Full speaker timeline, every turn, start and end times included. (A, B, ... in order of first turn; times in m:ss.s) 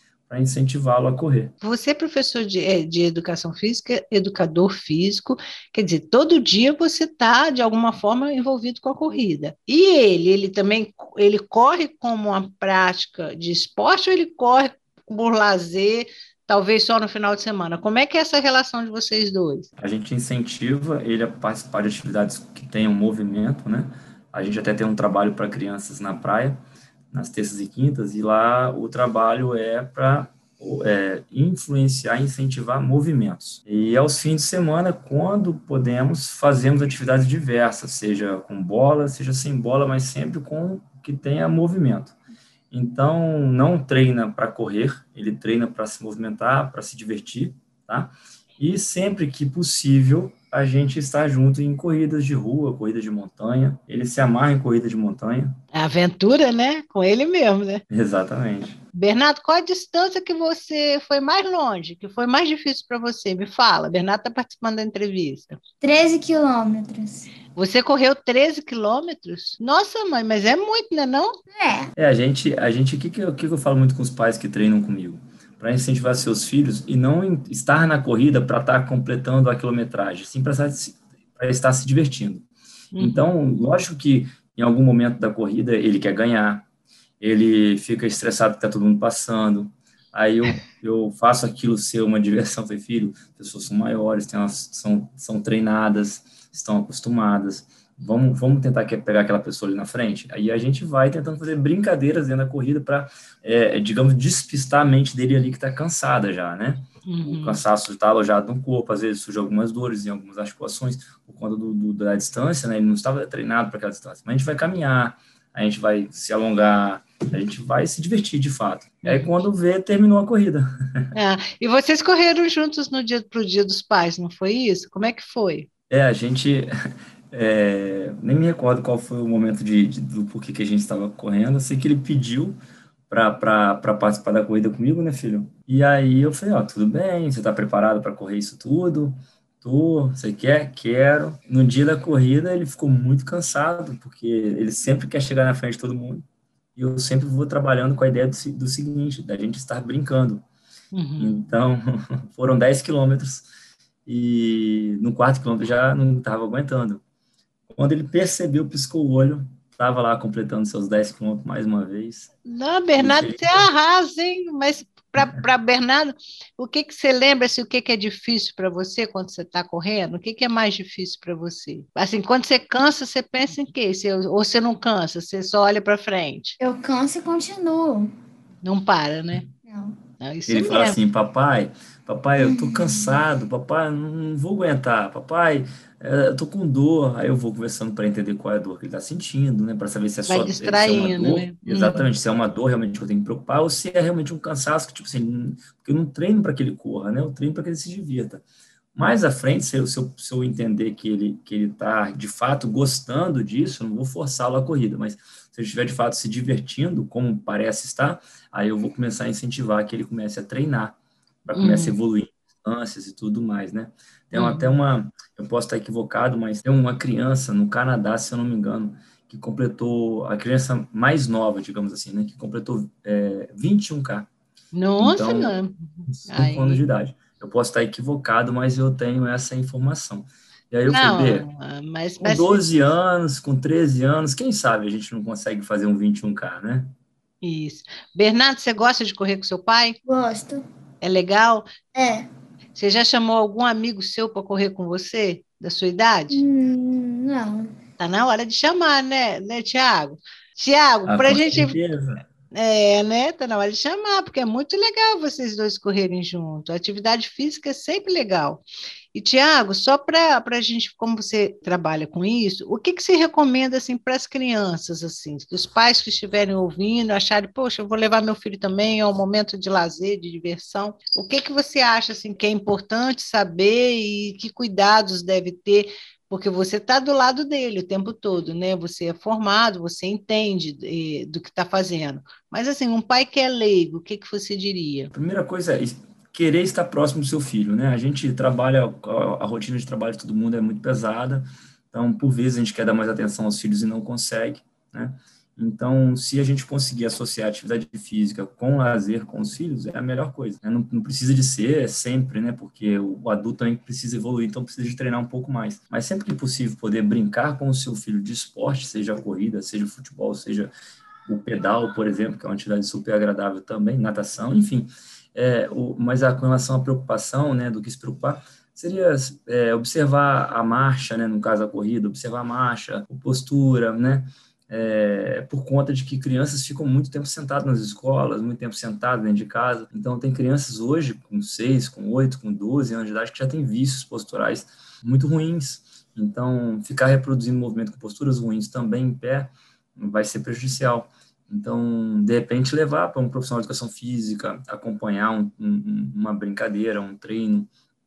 0:00.3-0:01.5 A
0:01.6-0:19.7 B
0:19.8-0:26.6 A
0:27.1-0:42.2 A
0:42.7-0:55.5 A
0:55.7-0:57.8 B
0:57.9-0:58.8 A
0:58.9-1:05.6 B
1:05.8-1:07.3 C
1:07.5-1:11.4 B
1:11.5-1:11.9 C
1:12.0-1:22.5 A
1:22.9-1:23.3 B
1:23.0-1:26.7 A
1:27.2-2:00.7 A
1:47.0-1:47.6 B
1:59.0-1:59.4 B
2:01.1-2:05.7 B
2:05.9-2:06.7 A
2:07.3-2:12.6 A
2:13.1-2:26.2 A
2:26.8-2:30.4 A
2:30.9-2:31.4 B
2:31.2-2:33.5 A
2:34.1-2:37.0 A
2:37.7-2:42.3 A
2:42.4-2:56.6 B
2:43.0-2:43.7 A
2:56.6-2:58.1 C
2:58.6-2:59.5 B
2:59.6-3:00.0 C
3:00.2-3:01.0 B
3:00.5-3:18.4 A
3:02.4-3:03.2 C
3:10.3-3:12.1 B
3:18.9-3:44.3 A
3:31.5-3:32.0 B
3:34.3-3:34.8 B
3:44.7-3:46.9 B
3:45.0-3:51.5 A
3:50.9-3:52.7 B
3:52.2-3:56.9 A
3:57.4-4:00.0 B
4:00.1-4:00.7 C
4:01.0-4:01.8 B
4:01.9-4:02.3 C
4:02.8-4:06.4 B
4:06.3-4:07.7 C
4:08.0-4:11.8 B
4:11.1-4:12.2 A
4:12.5-4:45.1 B
4:45.1-5:10.7 A
5:11.3-5:47.7 A